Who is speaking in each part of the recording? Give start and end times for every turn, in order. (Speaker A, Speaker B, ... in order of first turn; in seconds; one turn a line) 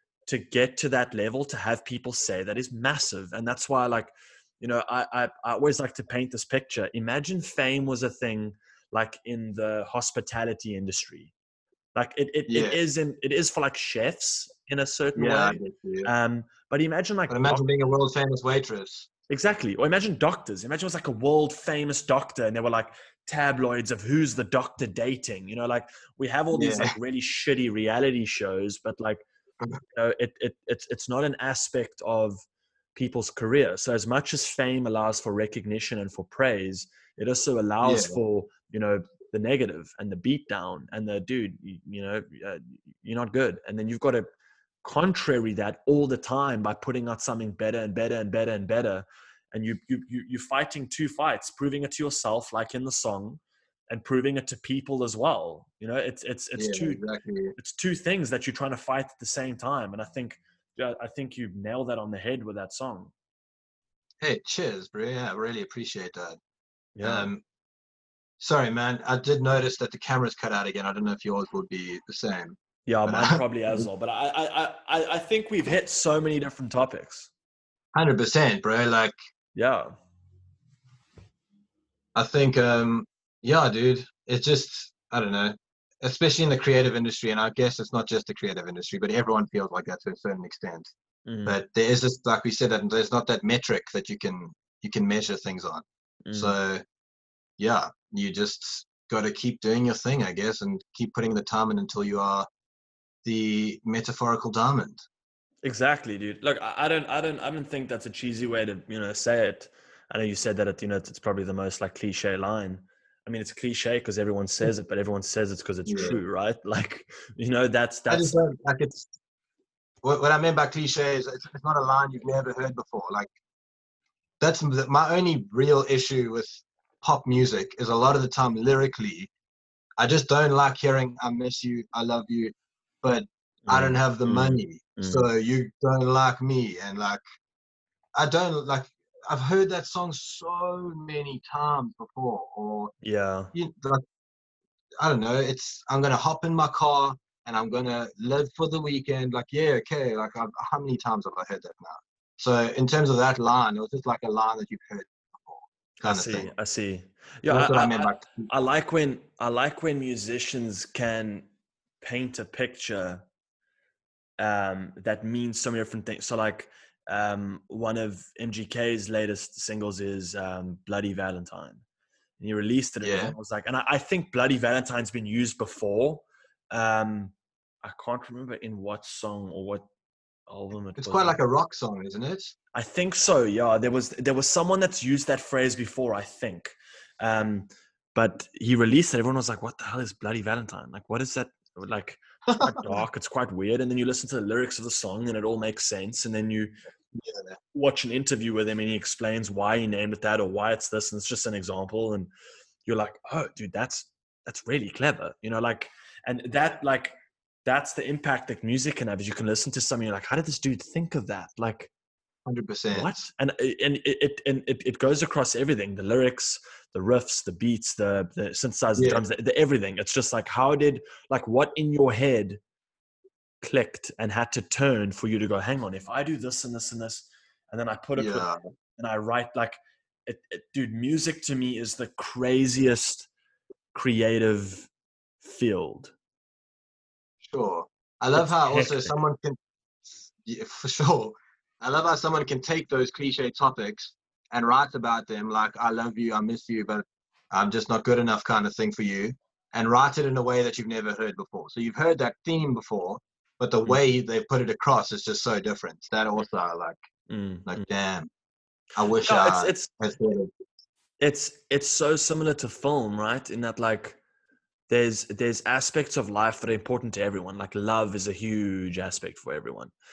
Speaker A: 0.3-11.3
Speaker A: 11.9-17.7
Speaker B: 12.5-12.8
Speaker B: 15.2-16.1
Speaker B: 17.3-19.1
Speaker A: 19.3-29.2
Speaker B: 26.5-26.9
Speaker A: 29.9-32.4
Speaker A: 33.0-44.3
Speaker B: 37.8-38.2
Speaker A: 44.8-57.0
Speaker B: 56.6-57.5
Speaker A: 57.6-63.1
Speaker B: 64.2-66.4
Speaker A: 67.0-67.3
Speaker B: 67.0-67.4
Speaker B: 68.4-73.8
Speaker A: 72.9-77.3
Speaker B: 77.9-79.1
Speaker A: 79.5-80.0
Speaker B: 82.2-90.9
Speaker A: 91.3-91.6
Speaker B: 91.5-96.8
Speaker A: 96.3-96.6
Speaker B: 97.6-102.5
Speaker B: 103.2-105.0
Speaker A: 105.6-118.4
Speaker B: 115.9-116.2
Speaker B: 118.1-119.1
Speaker B: 120.0-123.3
Speaker B: 124.4-129.3
Speaker B: 130.0-137.2
Speaker A: 133.7-135.3
Speaker B: 138.2-142.9
Speaker A: 143.0-143.5
Speaker B: 143.5-144.0
Speaker B: 145.0-156.5
Speaker A: 156.0-161.5
Speaker B: 157.5-158.5
Speaker A: 162.0-163.2
Speaker A: 164.4-171.8
Speaker A: 172.4-179.9
Speaker B: 173.0-173.3
Speaker A: 180.5-181.4
Speaker B: 181.0-182.5
Speaker A: 182.7-196.7
Speaker B: 192.5-193.0
Speaker B: 197.2-197.6
Speaker A: 197.7-202.3
Speaker A: 202.9-211.9
Speaker B: 212.5-213.2
Speaker A: 212.9-222.6
Speaker B: 219.0-219.2
Speaker A: 223.6-233.3
Speaker B: 228.2-228.6
Speaker A: 233.9-234.9
Speaker A: 235.4-236.1
Speaker B: 237.4-257.0
Speaker A: 238.3-239.2
Speaker A: 257.3-257.9
Speaker B: 257.7-258.3
Speaker B: 259.0-260.5
Speaker A: 259.2-259.9
Speaker A: 261.2-264.2
Speaker A: 264.9-269.9